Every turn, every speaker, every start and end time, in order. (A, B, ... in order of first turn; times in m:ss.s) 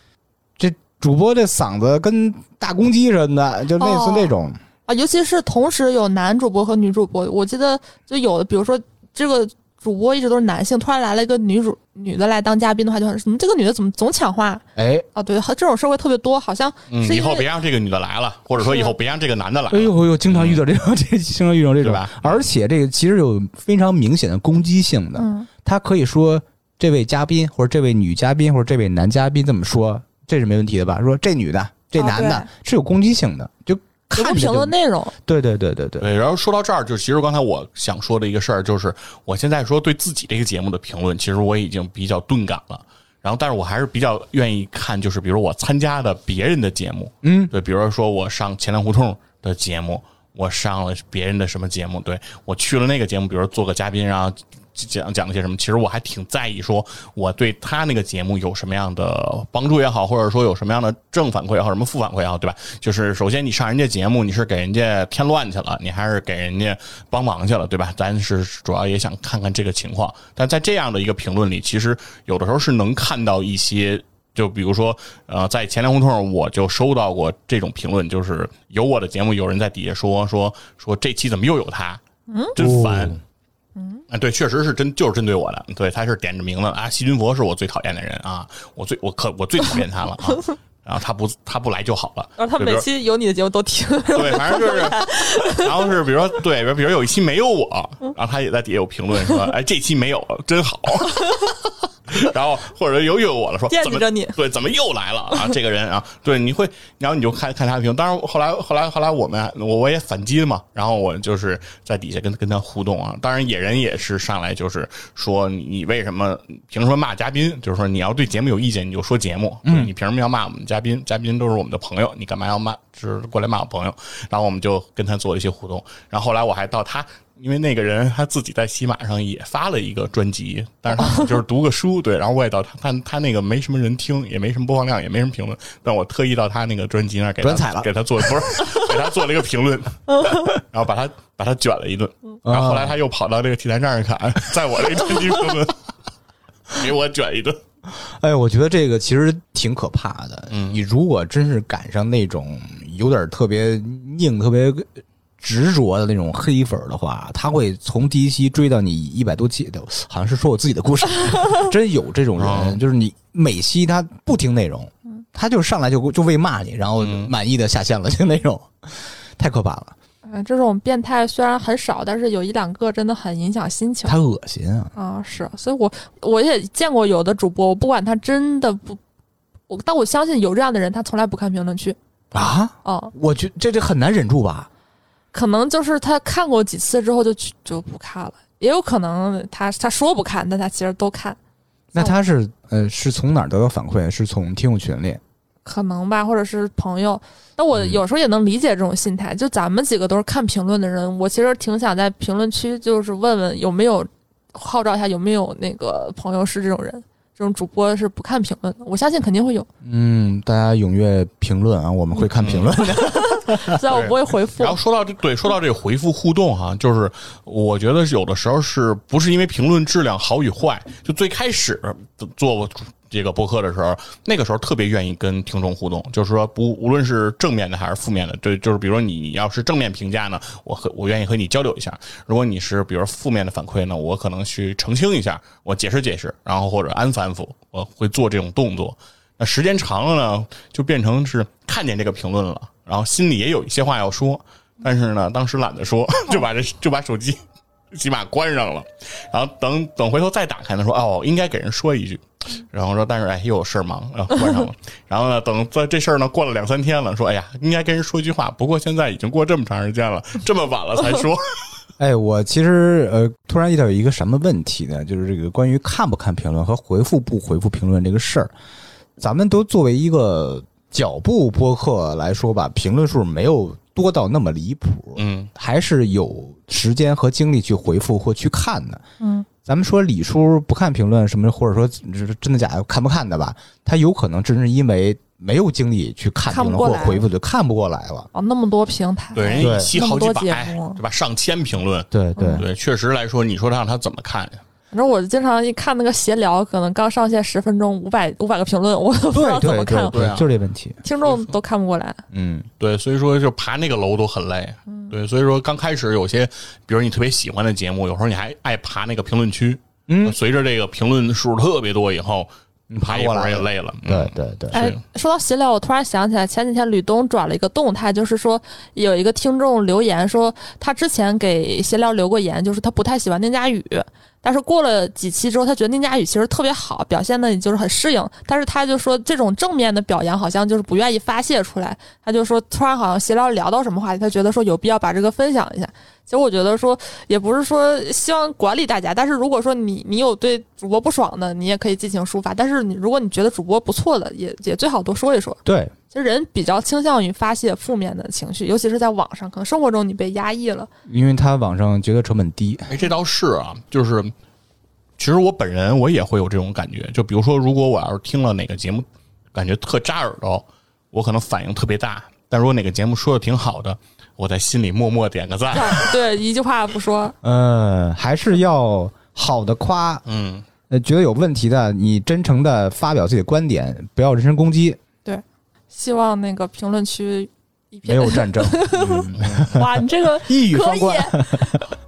0:00.6-0:04.6 A
0:03.8-0:04.3 B
0:04.9-0:14.6 B
0:14.8-0:15.1 A
0:15.1-0:17.5 B
0:16.9-0:20.6 C
0:18.6-0:18.9 B
0:19.7-0:34.7 A
0:21.8-0:22.5 C
0:25.2-0:25.5 B
0:32.0-0:32.5 B
0:34.1-0:35.1 B
0:35.2-0:36.1 A
0:36.0-1:22.0 C
0:47.2-0:47.5 A
1:22.3-1:22.6 B
1:22.6-1:23.2 C
1:22.6-1:23.2 A
1:23.8-1:24.0 B
1:24.1-1:32.9 C
1:32.4-1:35.7 B
1:34.1-2:25.8 C
1:43.7-1:44.3 B
1:59.6-1:59.9 A
2:17.4-2:18.9 A
2:22.4-2:23.0 A
2:26.7-2:27.6 C
2:28.0-2:34.9 A
2:30.5-2:30.8 C
2:35.4-2:49.9 A
2:42.4-2:42.8 C
2:47.0-2:47.3 C
2:50.2-2:54.2 B
2:54.0-2:54.9 A
2:55.0-2:59.0 B
2:59.7-3:02.0 B
3:02.3-3:04.7 A
3:02.8-3:03.1 B
3:05.3-3:11.4 B
3:11.9-3:15.2 A
3:15.6-3:29.7 B
3:29.8-3:33.8 A
3:32.4-3:32.8 C
3:33.0-3:34.8 B
3:33.9-4:07.4 C
4:07.9-4:21.8 C
4:22.0-4:28.5 A
4:29.2-4:39.0 A
4:35.2-4:35.5 C
4:39.2-4:39.4 B
4:39.6-4:48.3 A
4:46.5-4:47.2 B
4:48.3-4:51.0 B
4:49.3-4:54.6 C
4:49.6-4:49.9 A
4:52.1-4:52.7 A
4:52.4-4:52.6 B
4:54.9-5:00.3 B
4:59.3-5:01.0 A
5:00.1-5:00.5 C
5:01.0-5:02.2 B
5:02.3-5:02.7 A
5:02.8-5:12.5 C
5:10.1-5:10.4 A
5:12.9-5:14.8 A
5:13.0-5:15.0 C
5:14.7-5:45.6 B
5:45.6-5:45.9 A
5:46.1-5:50.9 B
5:51.1-5:52.9 A
5:52.9-5:54.3 C
5:55.2-6:06.1 C
6:05.7-6:07.3 B
6:07.4-6:10.2 A
6:10.3-6:10.7 C
6:10.9-6:15.0 A
6:15.2-6:21.9 B
6:18.0-6:21.8 A
6:19.3-6:19.7 C